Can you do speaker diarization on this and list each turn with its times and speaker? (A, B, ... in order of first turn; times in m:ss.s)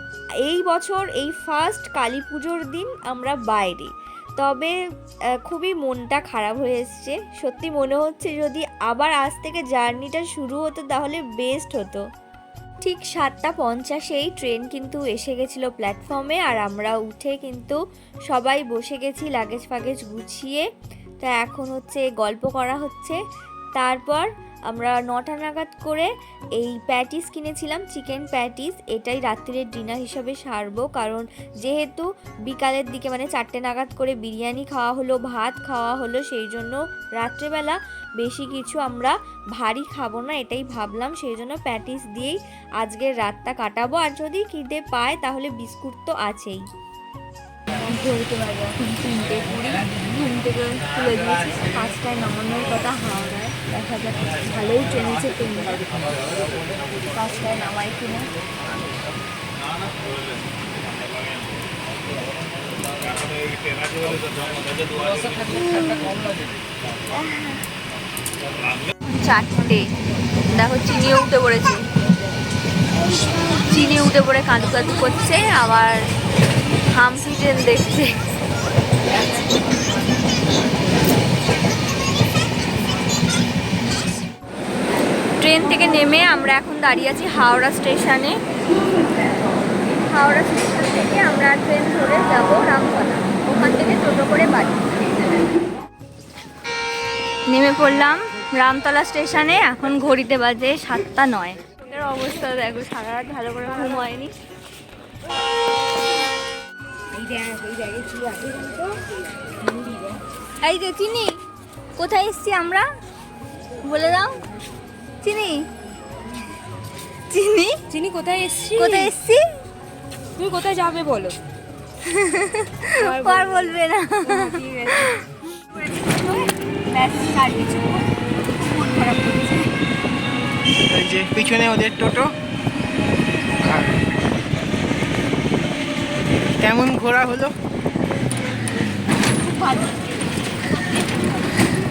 0:00.4-0:04.7 A
0:05.4-0:12.0 A
0:12.8-0:17.8 A
0:18.3-0:20.6 A
0:21.2-0:23.2 A
0:23.8-0:46.6 A
0:47.8-0:55.8 A
0:57.1-0:58.3 A
1:07.3-1:07.5 A
1:09.1-1:09.8 A
1:10.5-1:11.8 A
1:13.7-1:16.0 A
1:16.9-1:18.1 A
1:25.4-1:28.4 A
1:30.1-1:35.0 A
1:37.5-1:44.3 A
1:47.1-1:50.2 B
1:50.6-1:51.4 A
1:52.0-1:52.8 A
1:53.8-1:54.4 A
1:55.2-1:55.6 A
1:57.3-1:57.8 A
1:57.9-1:59.1 B
1:58.8-1:59.4 A
2:00.4-2:01.4 B
2:02.0-2:05.2 A
2:03.0-2:05.1 B
2:05.9-2:08.1 A
2:08.6-2:09.7 A
2:10.9-2:12.3 C
2:13.6-2:14.0 C
2:16.6-2:17.5 C